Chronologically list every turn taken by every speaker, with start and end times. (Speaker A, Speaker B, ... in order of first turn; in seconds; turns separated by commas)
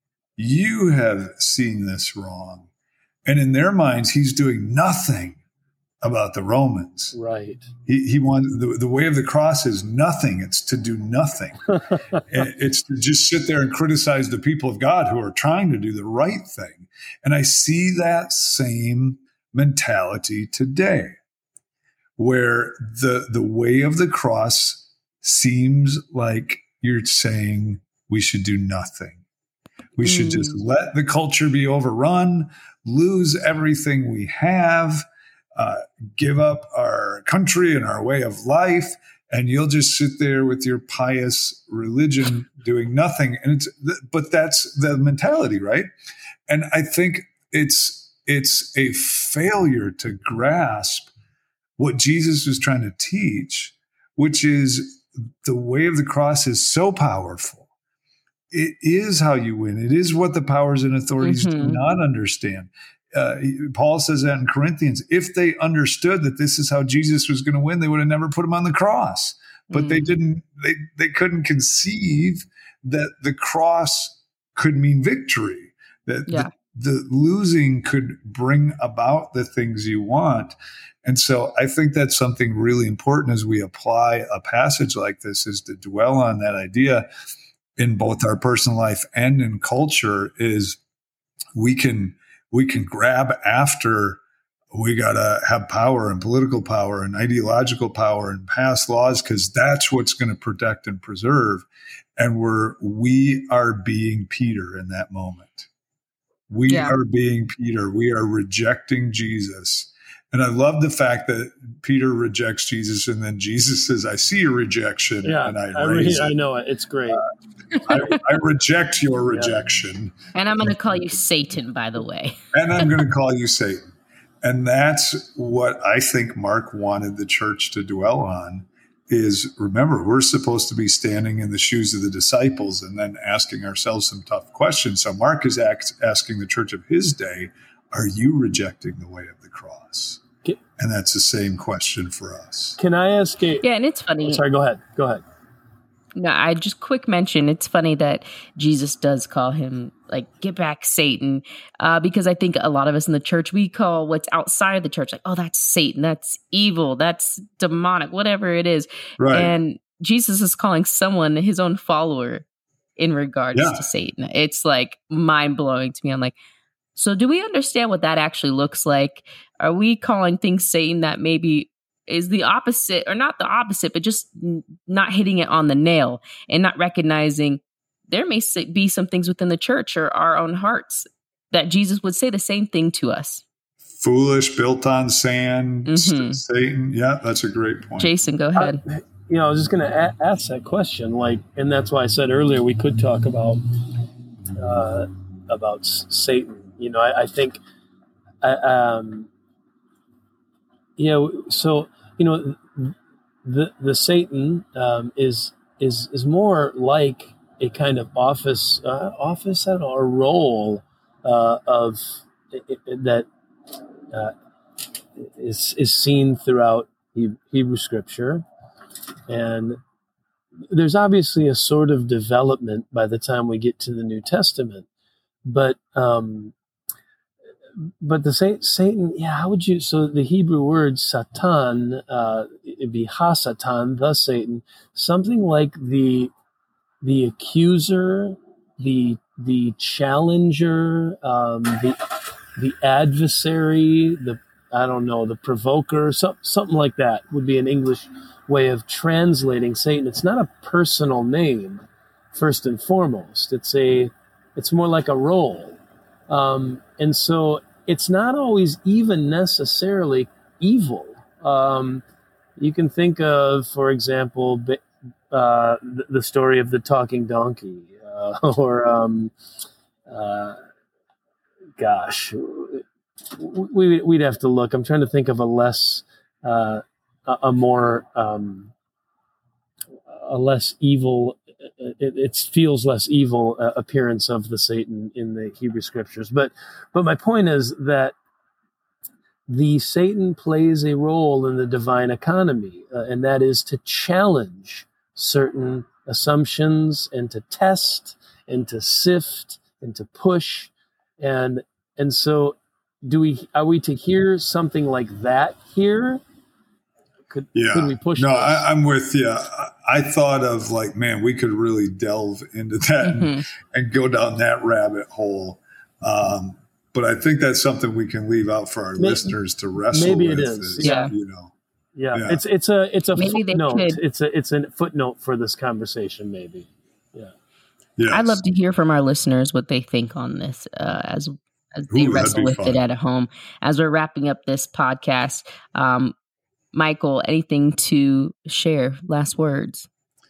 Speaker A: 0.4-2.7, Speaker A: 3.2-5.4, Speaker A: 6.0-7.1, Speaker B: 7.1-7.7, Speaker A: 7.8-11.6, Speaker A: 12.3-21.1, Speaker A: 22.2-29.2, Speaker A: 30.0-35.0, Speaker C: 30.0-30.6, Speaker A: 35.6-45.9, Speaker A: 46.5-51.1, Speaker A: 51.8-57.7, Speaker A: 58.5-87.1, Speaker C: 61.2-61.8, Speaker C: 69.7-70.1, Speaker A: 87.8-90.8, Speaker A: 91.5-94.2, Speaker A: 94.7-101.7, Speaker A: 102.2-105.7, Speaker A: 106.5-116.4, Speaker C: 106.7-107.0, Speaker B: 115.2-117.2, Speaker A: 117.8-120.8, Speaker C: 120.3-122.3, Speaker A: 122.5-123.8, Speaker A: 124.4-140.2, Speaker A: 140.8-142.8, Speaker B: 142.8-143.6, Speaker C: 143.6-144.4, Speaker B: 144.2-145.2, Speaker C: 146.2-162.4, Speaker A: 159.2-159.5, Speaker C: 163.0-166.3, Speaker A: 163.5-163.8, Speaker C: 166.9-183.4, Speaker A: 184.0-188.1, Speaker C: 185.9-186.4, Speaker C: 188.0-188.8, Speaker B: 188.5-193.9, Speaker B: 194.5-197.6, Speaker B: 198.4-199.3, Speaker B: 201.0-213.3, Speaker B: 215.2-218.4, Speaker B: 219.3-219.8, Speaker B: 220.7-224.8, Speaker B: 225.4-226.5, Speaker B: 228.0-236.3, Speaker B: 237.0-255.8, Speaker B: 256.3-262.0, Speaker B: 262.6-269.3, Speaker B: 270.1-270.6, Speaker B: 271.8-278.7, Speaker B: 280.1-288.1, Speaker B: 289.5-306.2, Speaker B: 307.3-308.7, Speaker A: 307.5-321.5, Speaker C: 313.0-313.4, Speaker B: 319.0-319.4, Speaker B: 319.9-321.1, Speaker C: 320.8-321.1, Speaker B: 321.9-327.3, Speaker A: 322.1-322.4, Speaker C: 323.1-324.0, Speaker A: 328.0-328.4, Speaker C: 328.1-336.1, Speaker A: 331.9-332.8, Speaker C: 336.7-339.9